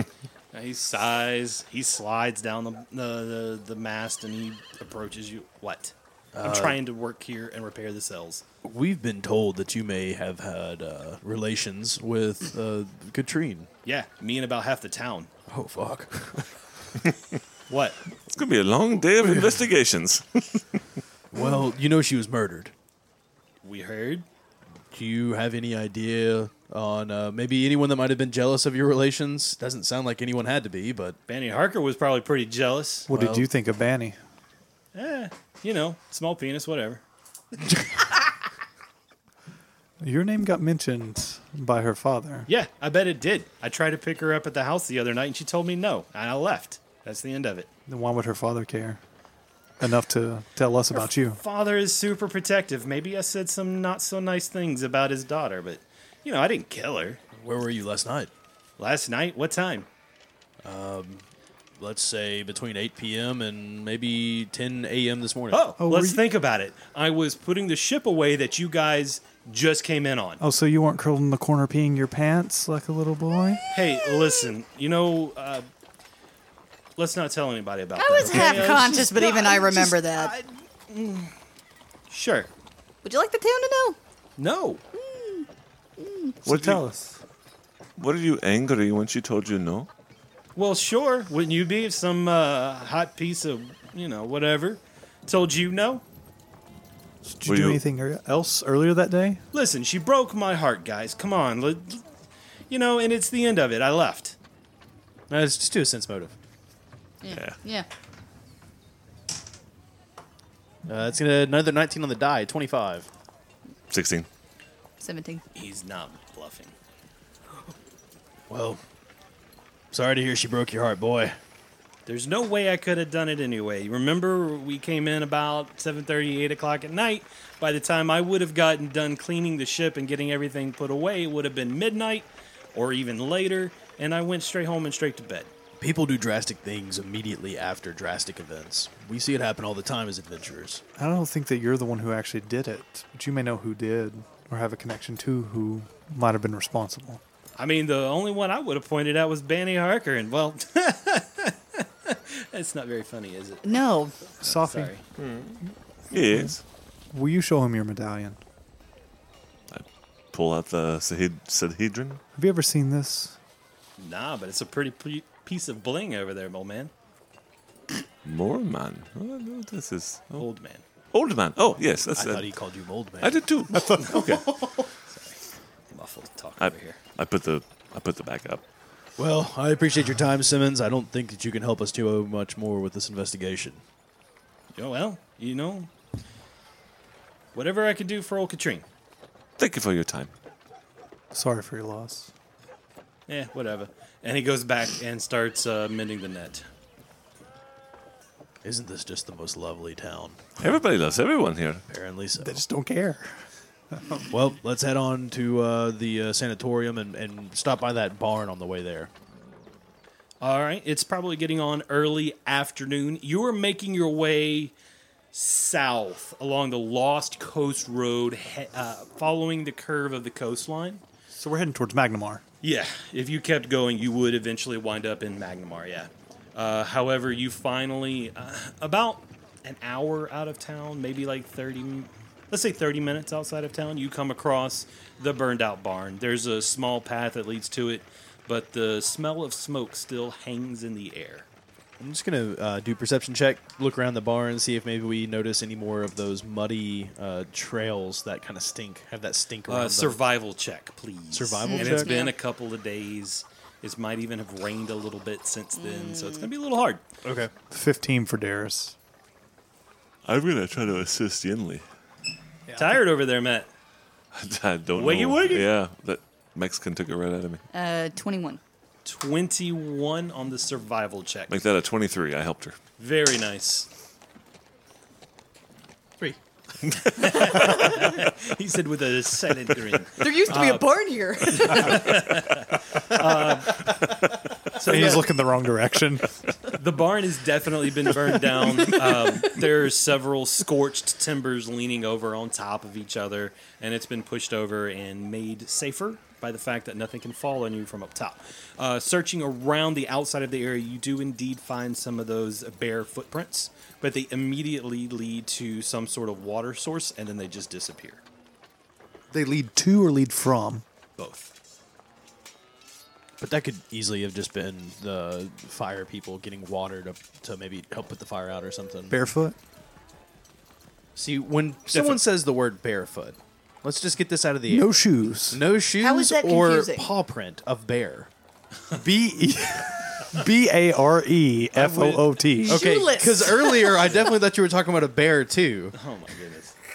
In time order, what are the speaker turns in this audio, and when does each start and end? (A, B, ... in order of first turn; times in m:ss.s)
0:00.5-0:08.4 A
0:06.3-0:06.8 B
0:08.6-0:13.7 B
0:13.8-0:15.3 A
0:15.5-0:16.5 B
0:17.7-0:18.0 A
0:18.3-0:20.8 C
0:21.3-0:22.7 B
0:23.6-0:24.2 A
0:24.9-0:31.2 B
0:31.3-0:33.1 A
0:33.1-0:34.2 D
0:33.1-0:33.5 B
0:34.9-0:37.0 A
0:40.0-0:42.5 D
0:42.5-0:47.7 A
0:47.9-0:49.0 D
0:49.8-0:51.4 D
0:50.9-0:57.2 A
0:57.3-0:58.3 B
0:58.8-0:59.9 A
1:00.6-1:01.2 B
1:01.8-1:05.6 B
1:05.5-1:10.4 A
1:05.8-1:06.2 D
1:10.4-1:13.6 D
1:13.7-1:15.6 A
1:14.2-1:14.5 E
1:17.0-1:21.3 A
1:18.0-1:20.3 E
1:22.1-1:22.5 A
1:23.0-1:24.0 E
1:24.4-1:24.8 A
1:24.9-1:26.4 E
1:26.4-1:26.8 C
1:26.5-1:27.1 D
1:26.5-1:26.8 A
1:28.0-1:29.9 C
1:30.6-1:36.0 A
1:37.2-1:39.4 D
1:37.4-1:37.8 C
1:39.5-1:42.1 A
1:42.7-1:44.4 A
1:45.3-1:46.3 B
1:47.2-1:47.9 E
1:47.3-1:47.6 C
1:50.9-1:53.1 B
1:53.9-1:54.3 C
1:55.0-1:55.4 E
1:55.5-1:56.7 A
1:58.5-1:58.8 B
1:59.9-2:01.4 B
2:02.1-2:15.5 A
2:15.8-2:20.8 B
2:21.0-2:27.2 D
2:27.6-2:33.8 A
2:33.6-2:34.2 E
2:34.4-2:34.9 D
2:34.4-2:35.0 A
2:35.2-2:35.6 C
2:36.1-2:36.6 C
2:37.1-2:38.4 D
2:39.7-2:42.2 C
2:42.4-2:43.4 D
2:44.0-2:46.9 A
2:48.2-2:50.4 C
2:50.4-2:50.8 A
2:51.1-2:52.5 C
2:52.1-2:53.4 B
2:53.2-2:54.6 C
2:54.0-2:54.4 A
2:55.1-2:55.4 A
2:55.9-2:57.0 A
2:56.6-2:58.6 C
2:59.2-3:03.8 B
3:04.7-3:05.9 A
3:07.5-3:08.8 A
3:09.6-3:10.3 C
3:11.3-3:12.3 D
3:13.3-3:16.6 A
3:18.6-3:20.5 B
3:20.6-3:21.8 C
3:21.9-3:22.6 B
3:22.4-3:24.3 D
3:24.3-3:29.1 B
3:30.4-3:34.7 A
3:35.3-3:41.0 A
3:41.3-3:42.4 D
3:42.6-4:01.5 A
4:02.0-4:10.2 B
4:09.7-4:17.0 A
4:11.3-4:12.2 B
4:11.6-4:12.3 E
4:15.8-4:16.5 E
4:17.2-4:17.5 B
4:17.7-4:18.9 D
4:20.2-4:21.8 C
4:22.7-4:23.0 D
4:22.7-4:23.7 A
4:24.3-4:27.6 C
4:24.9-4:25.7 A
4:27.7-4:28.6 E
4:29.0-4:31.6 A
4:31.5-4:32.8 C
4:33.0-4:33.9 A
4:36.9-4:37.5 C
4:37.0-4:40.9 A
4:40.2-4:42.3 E
4:41.5-4:43.9 A
4:44.7-4:45.3 A
4:44.8-4:46.3 D
4:46.7-5:08.2 A
5:09.3-5:10.8 D
5:11.2-5:11.5 A
5:13.4-5:19.2 B
5:19.1-5:19.6 D
5:21.1-5:28.3 B
5:21.9-5:22.2 A
5:24.7-5:25.6 D
5:26.0-5:27.1 E
5:28.9-5:32.8 D
5:31.7-5:32.3 A
5:32.5-5:34.2 E
5:32.6-5:35.9 B
5:35.9-5:36.7 A